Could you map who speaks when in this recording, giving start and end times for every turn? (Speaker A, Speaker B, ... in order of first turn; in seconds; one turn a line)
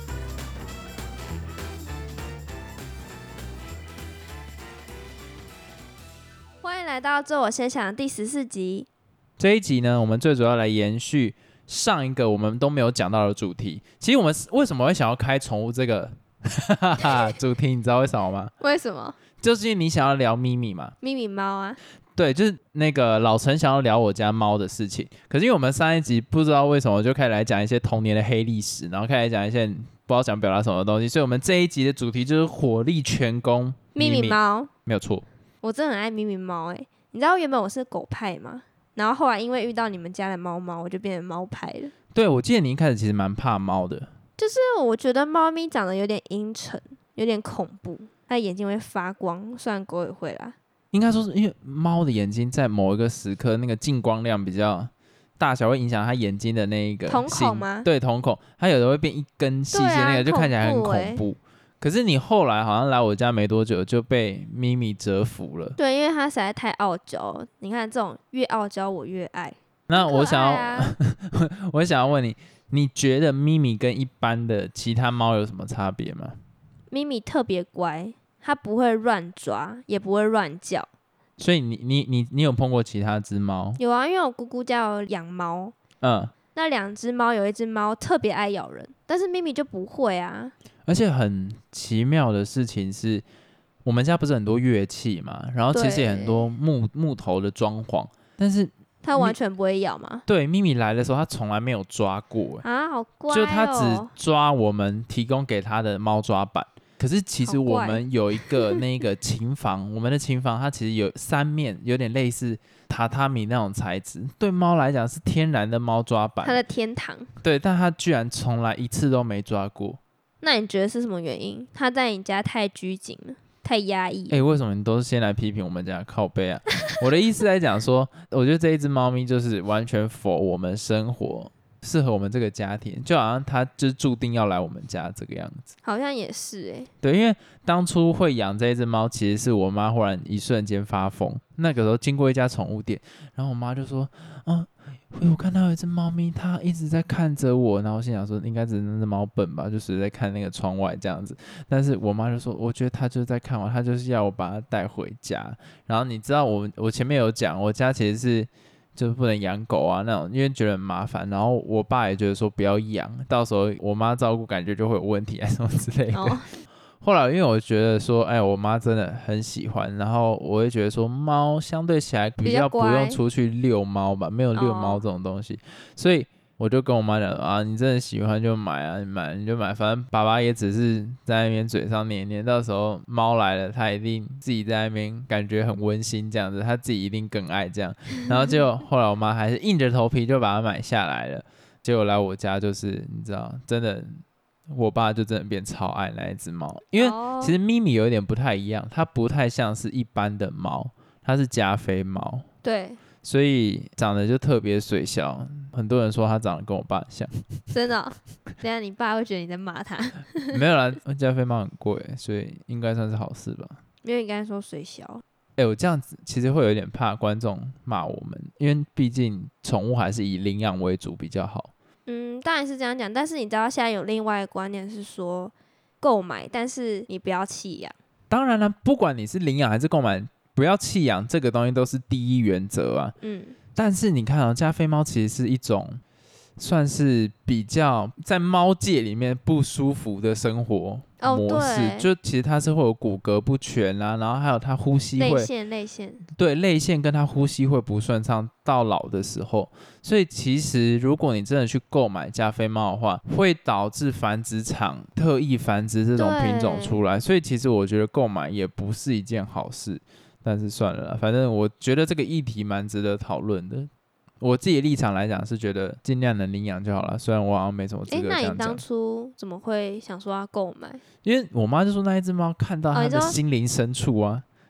Speaker A: 6.6-8.9
Speaker B: 9.4-18.5
Speaker A: 18.6-19.2
Speaker B: 19.4-20.9
Speaker A: 21.0-21.8
Speaker B: 22.2-35.2
Speaker A: 34.0-34.7
Speaker A: 35.6-41.9
Speaker B: 42.1-44.1
Speaker A: 44.4-50.6
Speaker B: 50.9-65.8
Speaker A: 57.1-57.9
Speaker A: 59.7-61.2
Speaker A: 65.8-71.0
Speaker B: 69.9-76.4
Speaker A: 76.9-80.9
Speaker B: 81.4-83.8
Speaker A: 83.8-85.8
Speaker B: 86.0-86.3
Speaker A: 86.5-90.5
Speaker B: 90.9-93.2
Speaker B: 93.8-99.4
Speaker A: 95.7-96.5
Speaker A: 99.0-100.2
Speaker B: 100.3-102.6
Speaker A: 102.6-104.1
Speaker B: 103.3-116.6
Speaker A: 107.4-108.8
Speaker A: 116.4-117.3
Speaker B: 117.4-120.0
Speaker A: 120.4-124.4
Speaker B: 124.3-135.7
Speaker A: 135.8-136.9
Speaker B: 137.0-166.4
Speaker A: 166.1-166.5
Speaker B: 167.0-202.5
Speaker A: 172.4-173.2
Speaker A: 174.6-175.1
Speaker A: 197.0-197.6
Speaker A: 202.6-203.0
Speaker B: 203.2-207.4
Speaker A: 207.7-210.6
Speaker B: 210.5-213.8
Speaker A: 214.0-215.2
Speaker B: 215.6-221.7
Speaker A: 222.1-227.9
Speaker B: 228.3-233.2
Speaker A: 233.2-233.6
Speaker B: 233.8-236.0
Speaker B: 236.6-245.5
Speaker A: 241.2-242.1
Speaker A: 245.2-246.2
Speaker B: 246.3-263.9
Speaker A: 256.2-257.0
Speaker B: 264.4-268.8
Speaker A: 268.1-271.0
Speaker B: 271.2-274.4
Speaker A: 272.9-273.4